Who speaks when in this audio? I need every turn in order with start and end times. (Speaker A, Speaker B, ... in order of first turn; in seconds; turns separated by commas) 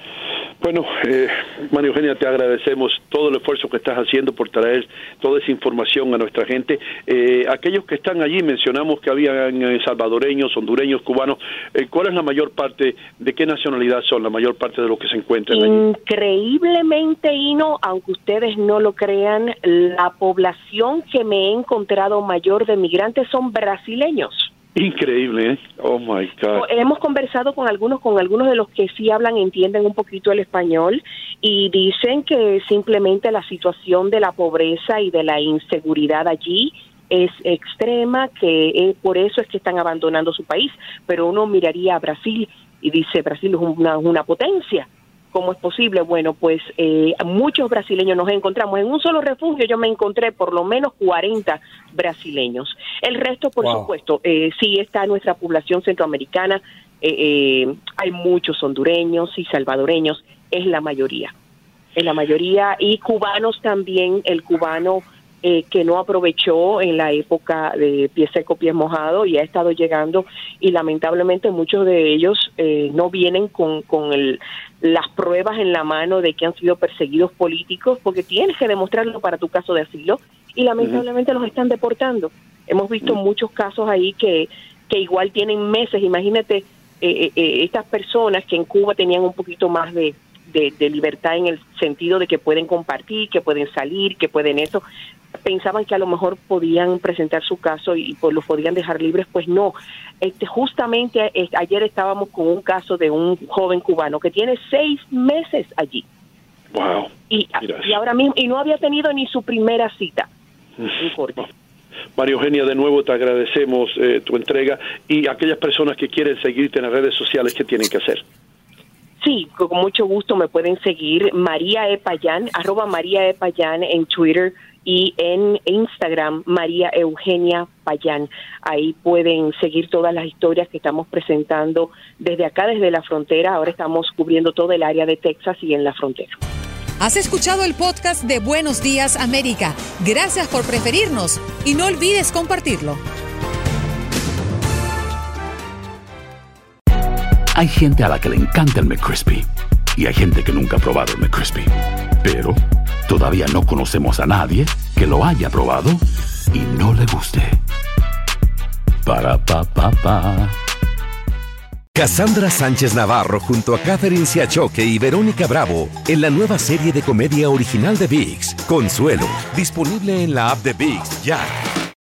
Speaker A: 0.6-15.8, Speaker B: 15.5-24.5, Speaker A: 24.8-26.6, Speaker B: 26.5-61.3, Speaker B: 62.0-94.8, Speaker B: 95.4-106.1, Speaker A: 106.7-107.1, Speaker B: 107.3-110.3, Speaker B: 110.9-111.5, Speaker A: 112.2-118.2, Speaker B: 119.2-136.4, Speaker C: 137.0-143.0, Speaker D: 147.5-157.6, Speaker D: 159.0-160.6, Speaker E: 161.9-171.5